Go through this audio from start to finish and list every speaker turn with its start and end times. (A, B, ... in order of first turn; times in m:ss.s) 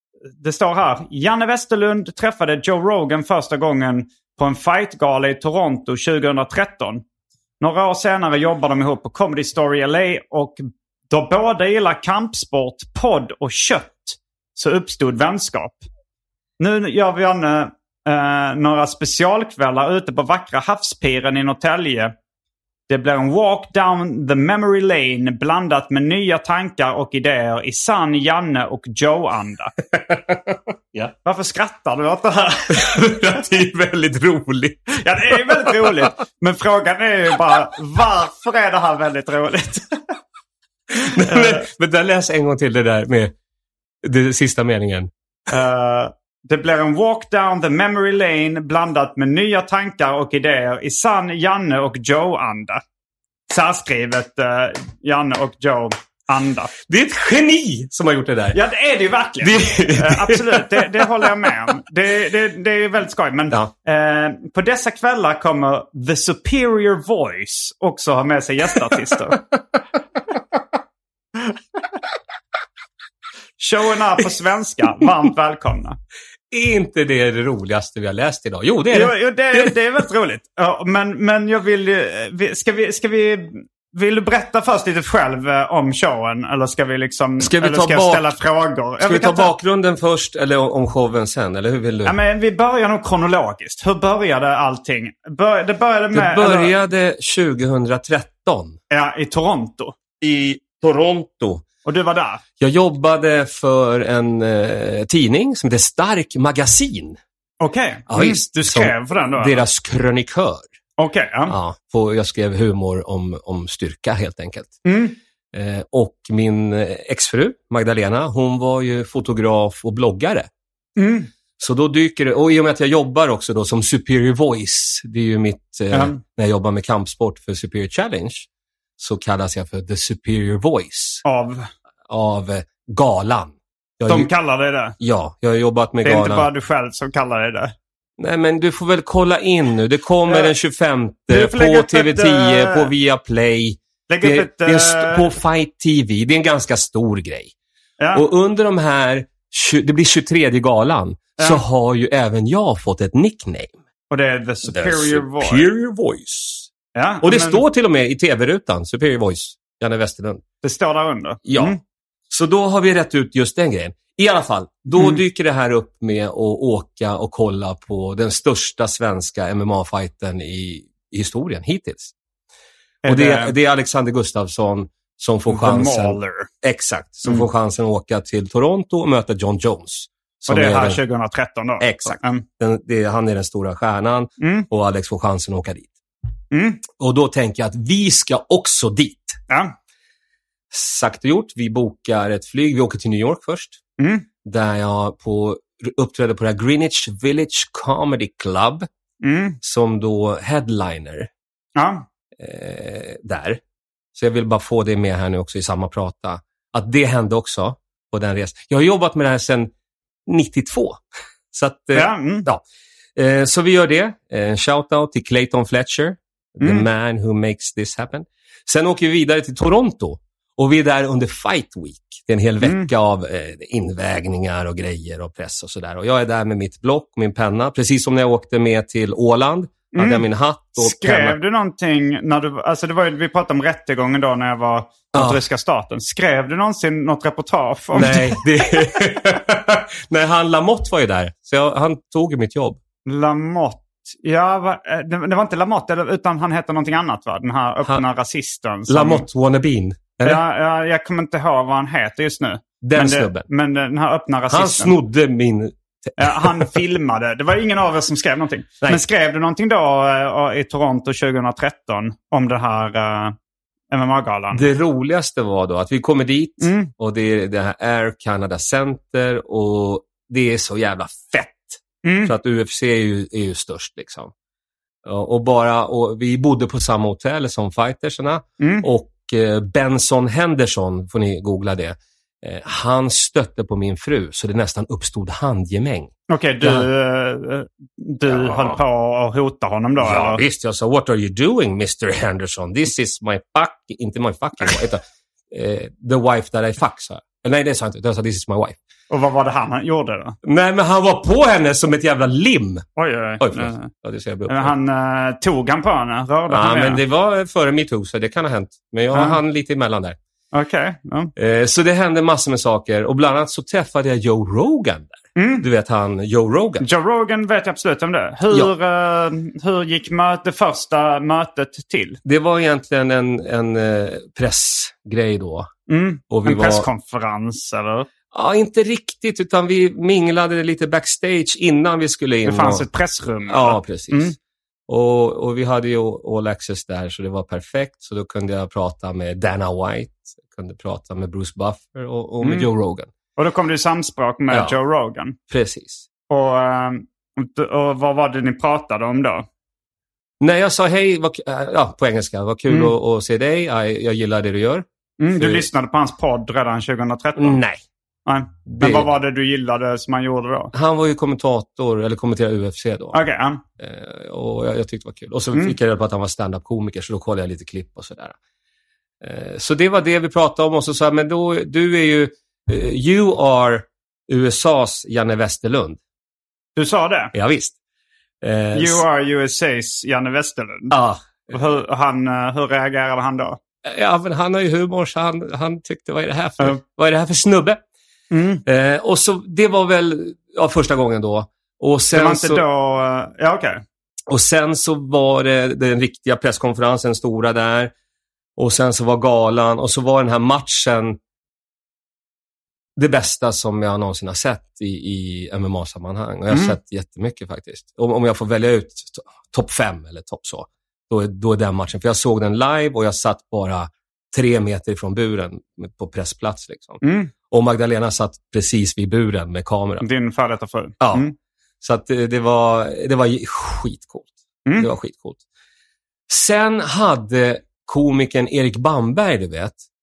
0:00.4-0:07.0 A
0:07.6-0:15.8 A
0:16.6-0:22.1 A
0:22.9-0:29.7 A
0:30.0-0:31.1 B
0:31.2-0:32.8 A
0:32.7-0:36.1 B
0:35.0-0:40.0 A
0:40.9-0:43.3 B
0:41.3-0:41.6 A
0:44.0-0:45.1 B
0:45.5-0:52.8 A
0:53.5-0:56.7 A
0:56.9-0:58.6 B
0:58.5-1:09.4 A
0:59.4-1:01.3 B
1:13.6-1:16.0 A
1:16.5-1:19.7 B
1:18.9-1:29.5 A
1:27.4-1:28.2 B
1:29.0-1:32.2 B
1:32.0-1:36.7 A
1:36.1-1:38.8 B
1:38.9-1:40.0 A
1:40.2-1:41.6 B
1:41.8-1:42.4 A
1:42.6-1:47.2 B
1:47.6-1:49.6 A
1:48.1-1:50.6 B
1:51.0-1:51.6 A
1:51.5-1:54.8 B
1:54.8-1:55.2 A
1:55.5-2:00.5 B
2:01.0-2:01.3 A
2:01.6-2:08.5 B
2:05.9-2:06.2 A
2:09.0-2:11.2 B
2:11.2-2:11.7 A
2:12.1-2:14.3 B
2:14.1-2:15.0 A
2:15.0-2:16.5 B
2:16.0-2:17.7 A
2:18.2-2:27.5 B
2:20.3-2:20.5 A
2:21.3-2:22.9 A
2:24.1-2:25.3 A
2:28.0-2:28.2 A
2:28.1-2:33.8 B
2:34.1-2:35.7 A
2:34.7-2:36.7 B
2:37.0-2:37.6 A
2:37.2-2:40.4 B
2:40.6-2:41.8 A
2:41.4-2:41.8 B
2:42.3-2:52.1 B
2:44.9-2:45.2 A
2:53.0-2:53.5 A
2:53.0-3:01.0 B
2:55.5-2:56.5 A
3:00.5-3:02.4 A
3:01.8-3:05.9 B
3:04.4-3:04.7 A
3:06.5-3:06.8 A
3:06.9-3:09.4 B
3:10.7-3:13.8 B
3:14.0-3:14.2 A
3:14.4-3:18.9 B
3:19.2-3:19.6 A
3:19.6-3:21.3 B
3:21.8-3:22.0 A
3:22.4-3:23.6 B
3:24.1-3:29.7 B
3:30.3-3:31.0 B
3:31.5-3:32.6 B
3:31.9-3:32.4 A
3:33.2-3:51.4 B
3:36.6-3:36.8 A
3:42.6-3:42.9 A
3:49.9-3:50.2 A
3:50.8-3:58.4 A
3:55.1-3:55.4 B
3:57.9-4:02.8 B
4:03.0-4:09.2 A
4:08.9-4:10.4 B
4:10.2-4:15.0 A
4:12.8-4:13.4 B
4:14.5-4:16.7 B
4:16.2-4:23.3 A
4:23.9-4:24.7 A
4:24.5-4:34.3 B
4:26.6-4:26.9 A
4:32.0-4:32.3 A
4:35.0-4:46.9 B
4:38.6-4:38.9 A
4:46.3-4:50.4 A
4:48.3-4:48.8 B
4:50.0-4:58.8 B
4:59.1-5:00.4 A
5:00.4-5:02.8 B
5:03.0-5:03.9 A
5:03.4-5:04.7 B
5:04.5-5:07.0 A
5:06.5-5:10.2 B
5:09.1-5:09.4 A
5:10.5-5:11.3 A
5:11.4-5:16.8 B
5:15.4-5:15.7 A
5:16.8-5:22.2 A
5:22.2-5:25.7 B
5:25.9-5:28.1 A
5:26.3-5:26.9 B
5:28.3-5:32.8 B
5:32.4-5:34.4 A
5:33.5-5:34.3 B
5:34.9-5:43.1 B
5:42.4-5:42.7 A
5:43.4-5:45.4 A
5:44.5-5:44.8 B
5:45.5-5:46.0 B
5:46.3-5:49.4 A
5:50.4-5:55.7 B
5:55.2-5:57.6 A
5:57.4-5:57.8 B
5:58.2-6:00.7 A
5:58.7-5:59.1 B
6:00.7-6:03.2 B
6:03.1-6:03.6 A
6:03.8-6:08.4 B
6:09.2-6:16.0 B
6:16.8-6:17.3 A
6:17.3-6:17.7 B
6:18.4-6:19.0 B
6:18.7-6:20.9 A
6:20.9-6:21.3 B
6:21.5-6:23.6 A
6:23.8-6:27.8 B
6:28.3-6:28.6 A
6:28.6-6:32.6 B
6:32.1-6:33.8 A
6:34.3-6:37.9 B
6:38.6-6:41.2 B
6:43.0-7:00.0 B
6:46.5-6:46.8 A
6:57.0-6:57.3 A
7:00.0-7:01.3 A
7:01.0-7:01.2 B
7:01.8-7:05.4 B
7:06.3-7:09.8 B